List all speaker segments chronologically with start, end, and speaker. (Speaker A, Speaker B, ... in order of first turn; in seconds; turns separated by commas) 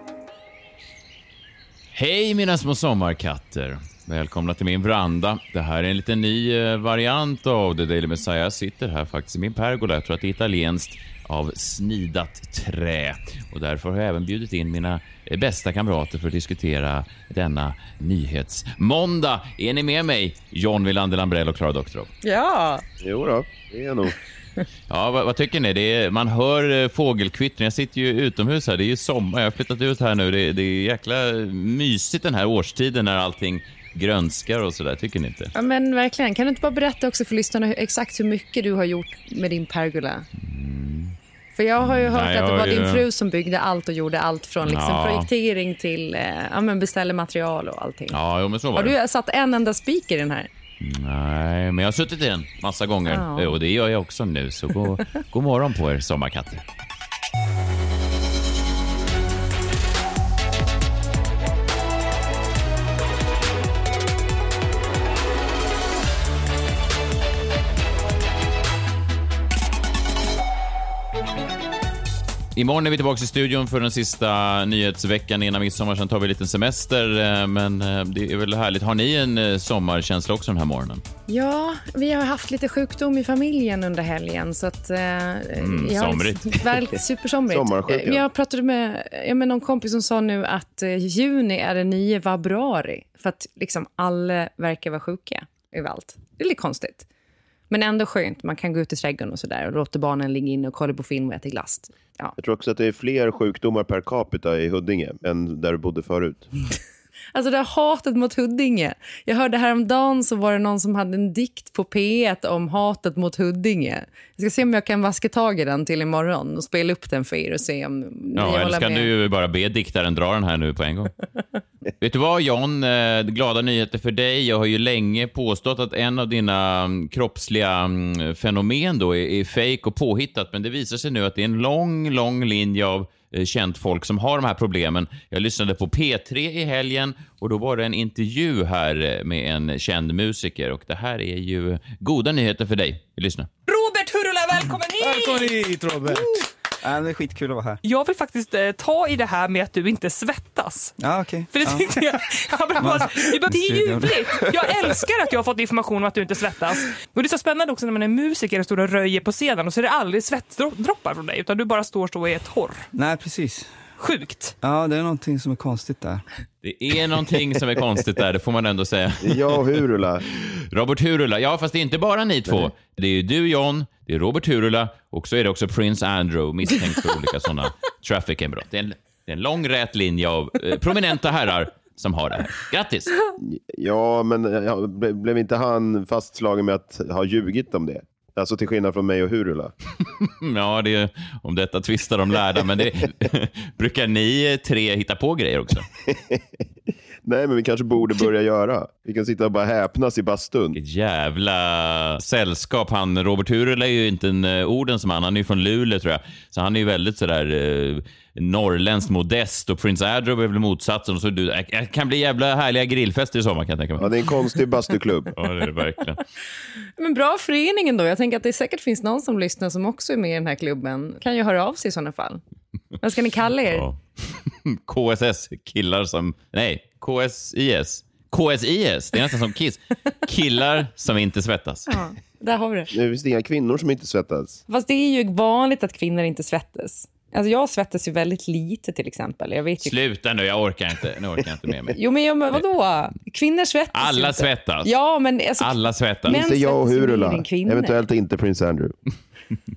Speaker A: 1.9-22.1, Speaker B: 22.2-22.8, Speaker C: 23.0-24.1, Speaker A: 24.9-35.5, Speaker B: 35.5-40.3, Speaker A: 40.4-41.1, Speaker B: 41.5-48.2, Speaker A: 41.8-43.0, Speaker A: 44.6-45.3, Speaker A: 48.1-48.9, Speaker B: 48.7-50.5, Speaker A: 50.8-56.6, Speaker B: 53.1-53.5, Speaker A: 72.5-81.0, Speaker B: 81.3-97.1, Speaker A: 85.6-86.7, Speaker C: 87.5-88.2, Speaker B: 97.7-102.3, Speaker C: 102.4-106.5, Speaker B: 107.3-119.1, Speaker A: 118.3-121.1, Speaker A: 122.0-143.5, Speaker D: 143.7-146.4, Speaker E: 145.0-147.8, Speaker D: 147.8-150.9, Speaker E: 151.0-151.9, Speaker D: 151.5-162.9, Speaker E: 152.8-155.0, Speaker E: 162.9-163.9, Speaker D: 164.0-164.5, Speaker E: 164.6-166.2, Speaker A: 166.6-169.6, Speaker C: 169.2-170.2, Speaker A: 170.5-183.2, Speaker C: 183.4-189.7, Speaker A: 190.2-195.9, Speaker C: 196.1-196.4, Speaker C: 197.2-200.8, Speaker A: 200.7-214.1, Speaker C: 214.0-215.3, Speaker A: 215.3-216.2, Speaker B: 217.0-222.4, Speaker B: 223.0-223.8, Speaker A: 223.7-231.9, Speaker B: 231.9-232.9, Speaker C: 232.9-234.6, Speaker B: 234.7-240.0, Speaker A: 239.8-242.0, Speaker B: 241.9-248.0, Speaker A: 243.9-244.9, Speaker A: 245.6-246.3, Speaker C: 246.3-248.9